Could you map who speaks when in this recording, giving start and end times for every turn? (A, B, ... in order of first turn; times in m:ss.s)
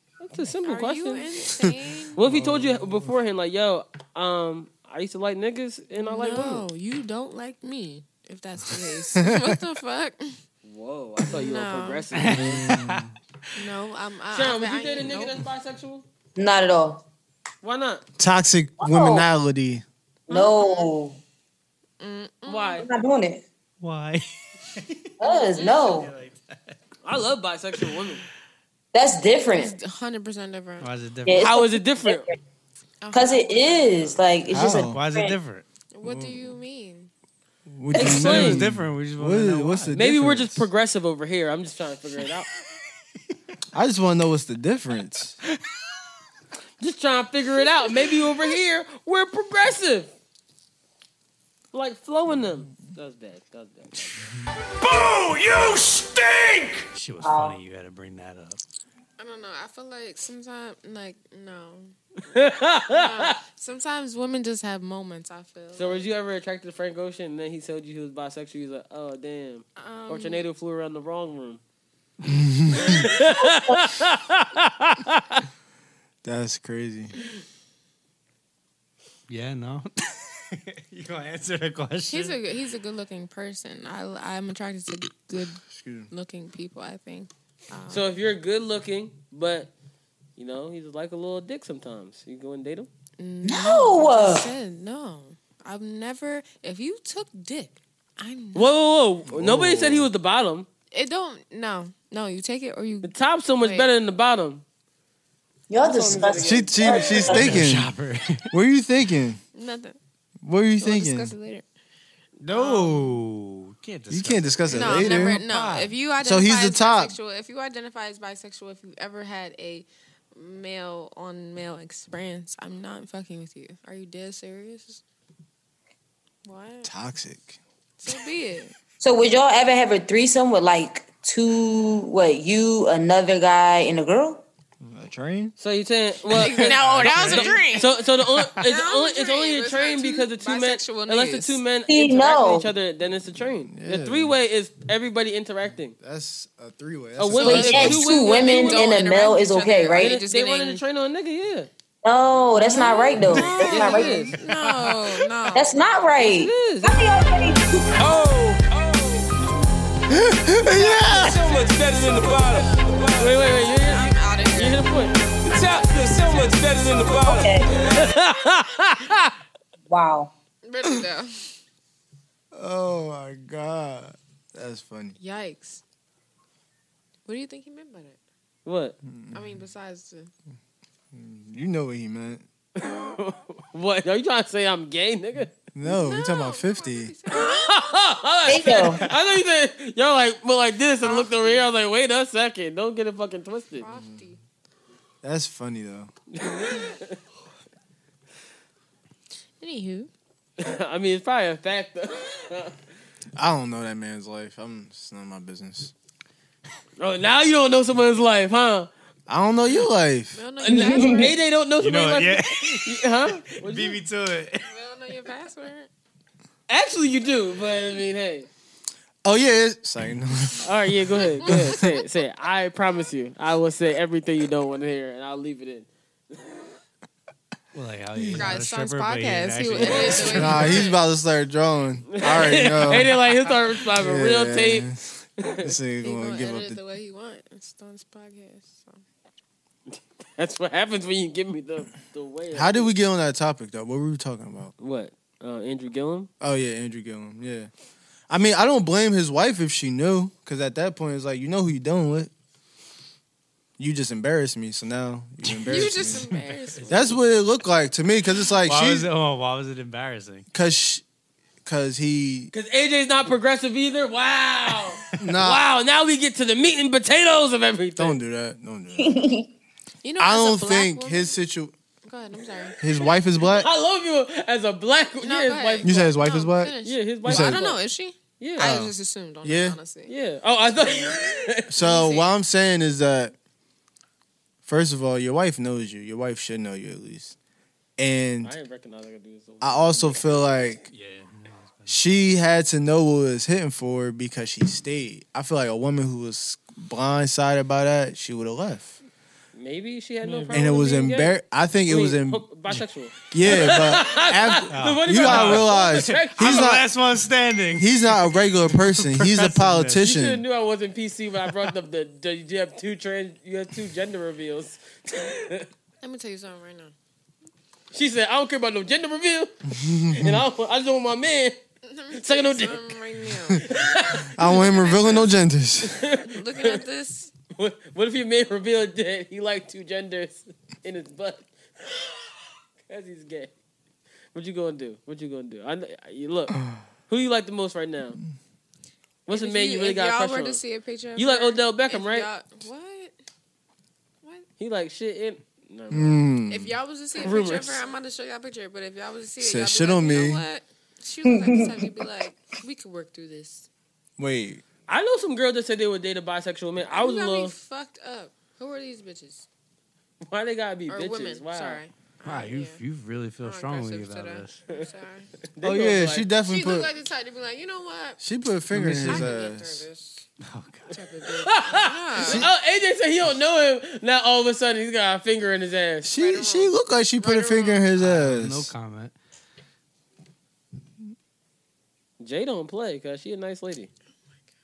0:00.2-0:01.3 A
0:00.6-0:02.2 B
0:02.2-0:06.6 A
0:02.2-0:03.1 C
0:05.9-0:10.4 B
0:09.2-0:09.6 C
0:10.6-0:12.6 A
0:11.2-0:12.0 B
0:12.1-0:13.5 D
0:12.3-0:13.1 C
0:13.6-0:15.4 B
0:14.3-0:16.0 A
0:16.4-0:17.0 E
0:17.6-0:18.0 A
0:18.2-0:19.8 C
0:18.8-0:19.3 E
0:20.3-0:21.2 E
0:20.3-0:20.8 A
0:20.6-0:20.9 B
0:22.0-0:22.8 B
0:22.4-0:22.8 A
0:22.8-0:23.4 E
0:23.8-0:26.7 D
0:25.2-0:26.1 E
0:25.2-0:25.9 B
0:27.0-0:28.2 A
0:28.9-0:29.8 E
0:29.5-0:30.9 B
0:30.8-0:31.5 D
0:31.2-0:32.2 E
0:31.4-0:32.3 A
0:33.0-0:34.2 B
0:33.1-0:35.4 E
0:34.5-0:35.0 C
0:34.6-0:35.6 D
0:35.9-0:37.1 B
0:36.0-0:36.4 C
0:37.7-0:40.7 C
0:37.9-0:38.5 E
0:38.0-0:38.6 A
0:38.1-0:39.9 D
0:39.9-0:42.5 A
0:43.7-0:45.4 C
0:46.8-0:50.1 A
0:51.7-0:54.2 A
0:54.8-0:56.8 F
0:56.9-0:58.6 D
0:57.2-0:57.6 E
0:59.2-1:01.9 B
1:02.3-1:03.4 A
1:02.9-1:06.1 B
1:05.7-1:11.6 A
1:09.8-1:10.4 B
1:12.3-1:13.0 C
1:12.7-1:15.4 A
1:16.2-1:17.1 C
1:19.3-1:22.4 D
1:22.1-1:28.1 B
1:25.7-1:26.1 C
1:27.9-1:29.7 A
1:30.4-1:32.9 A
1:33.2-1:38.8 B
1:33.4-1:34.5 E
1:38.5-1:40.7 A
1:39.3-1:40.1 C
1:40.9-1:43.9 B
1:43.0-1:44.6 A
1:45.7-1:47.6 E
1:45.8-1:47.3 A
1:46.3-1:47.9 C
1:47.3-1:48.5 D
1:48.5-1:49.4 C
1:49.5-1:50.0 B
1:50.4-1:51.3 C
1:50.8-1:51.6 B
1:52.4-1:55.9 D
1:52.5-1:53.2 B
1:54.1-1:55.4 C
1:54.7-2:05.0 B
1:56.2-1:57.1 C
2:06.4-2:06.9 B
2:06.8-2:07.6 C
2:08.0-2:08.7 B
2:09.0-2:14.4 E
2:14.8-2:15.5 C
2:15.6-2:26.0 A
2:16.3-2:18.0 B
2:16.5-2:17.6 C
2:18.6-2:21.6 B
2:21.8-2:22.7 E
2:23.4-2:24.4 C
2:26.0-2:28.1 C
2:27.2-2:28.9 A
2:27.4-2:30.8 B
2:27.4-2:30.2 E
2:30.0-2:31.7 A
2:32.0-2:34.2 E
2:32.6-2:35.9 B
2:33.3-2:34.4 A
2:35.5-2:37.9 E
2:36.2-2:37.0 A
2:38.0-2:39.3 F
2:40.1-2:41.4 C
2:40.6-2:46.5 B
2:41.0-2:43.4 F
2:43.2-2:45.2 A
2:45.4-2:47.6 F
2:47.2-2:47.7 E
2:47.7-2:49.3 A
2:49.9-2:50.3 E
2:50.6-2:51.3 B
2:52.5-2:55.2 C
2:55.2-2:55.8 B
2:57.2-2:58.2 B
2:58.6-2:59.0 A
2:59.0-2:59.5 C
2:59.3-3:00.3 B
3:01.1-3:02.4 C
3:02.8-3:05.5 A
3:05.7-3:07.1 C
3:05.8-3:07.8 B
3:07.3-3:13.9 A
3:08.4-3:09.0 E
3:11.0-3:11.6 B
3:13.8-3:14.4 B
3:13.9-3:14.2 C
3:15.2-3:16.1 C
3:16.3-3:17.2 A
3:19.6-3:20.1 B
3:20.6-3:22.7 A
3:23.4-3:25.9 C
3:27.0-3:28.9 A
3:29.3-3:30.4 C
3:30.3-3:31.4 B
3:30.6-3:34.0 A
3:30.7-3:31.3 E
3:31.8-3:34.7 D
3:34.6-3:35.9 B
3:36.7-3:38.5 A
3:39.2-3:40.6 C
3:40.6-3:46.6 A
3:41.5-3:41.8 C
3:47.7-3:50.8 D
3:48.2-3:51.0 B
3:49.8-3:50.4 A
3:50.3-3:53.1 C
3:52.1-3:54.9 A
3:54.0-3:56.8 C
3:55.4-3:55.7 A
3:56.0-3:59.0 B
3:59.9-4:02.9 A
4:02.5-4:04.7 C
4:04.8-4:06.3 A
4:06.4-4:07.7 C
4:08.3-4:12.3 C
4:13.8-4:16.3 C
4:15.4-4:17.1 D
4:15.6-4:17.2 B
4:16.9-4:19.1 C
4:18.6-4:20.5 D
4:20.5-4:21.0 C
4:21.6-4:22.5 C
4:22.5-4:28.2 A
4:25.2-4:25.6 C
4:28.0-4:29.2 C
4:29.0-4:29.5 E
4:30.0-4:31.3 B
4:30.2-4:31.7 C
4:32.0-4:32.8 B
4:32.8-4:33.7 C
4:33.4-4:36.1 A
4:35.2-4:40.1 B
4:35.8-4:37.6 C
4:36.8-4:37.8 A
4:38.4-4:38.7 A
4:38.6-4:39.8 C
4:40.1-4:41.7 A
4:41.7-4:43.3 C
4:41.8-4:42.3 B
4:44.6-4:47.3 C
4:48.0-4:48.5 C
4:48.4-4:50.2 A
4:49.6-4:50.9 C
4:50.9-4:52.0 D
4:51.9-4:59.0 C
4:59.5-5:01.4 A
5:00.2-5:00.6 D
5:00.5-5:02.4 C
5:01.9-5:06.7 A
5:03.3-5:06.9 C
5:04.7-5:05.7 D
5:06.3-5:10.0 D
5:07.7-5:10.4 C
5:10.0-5:15.7 A
5:16.0-5:16.9 B
5:17.9-5:19.5 A
5:19.7-5:20.4 C
5:20.1-5:21.6 A
5:21.8-5:25.3 B
5:22.1-5:23.0 A
5:23.6-5:24.9 A
5:24.3-5:26.0 C
5:25.8-5:26.8 A
5:26.2-5:27.3 B
5:27.6-5:32.3 A
5:32.9-5:33.5 A
5:34.3-5:36.6 A
5:37.1-5:38.2 A
5:39.3-5:40.6 A
5:39.3-5:43.1 B
5:41.1-5:42.3 A
5:44.6-5:46.2 A
5:45.9-5:46.7 C
5:46.5-5:53.7 B
5:47.1-5:47.8 A
5:49.4-5:50.4 C
5:51.2-5:52.0 E
5:54.2-5:54.6 C
5:54.9-5:57.5 A
5:56.8-5:59.4 B
6:00.3-6:01.8 A
6:00.9-6:02.8 B
6:02.2-6:04.6 D
6:03.4-6:05.3 B
6:05.5-6:06.3 A
6:05.6-6:06.9 C
6:06.4-6:08.2 B
6:08.2-6:09.8 C
6:08.7-6:09.3 D
6:09.0-6:10.2 B
6:10.4-6:10.9 D
6:10.9-6:12.5 B
6:11.4-6:16.1 A
6:12.2-6:12.5 C
6:16.1-6:18.7 C
6:16.1-6:17.9 B
6:18.0-6:19.1 D
6:22.2-6:23.9 A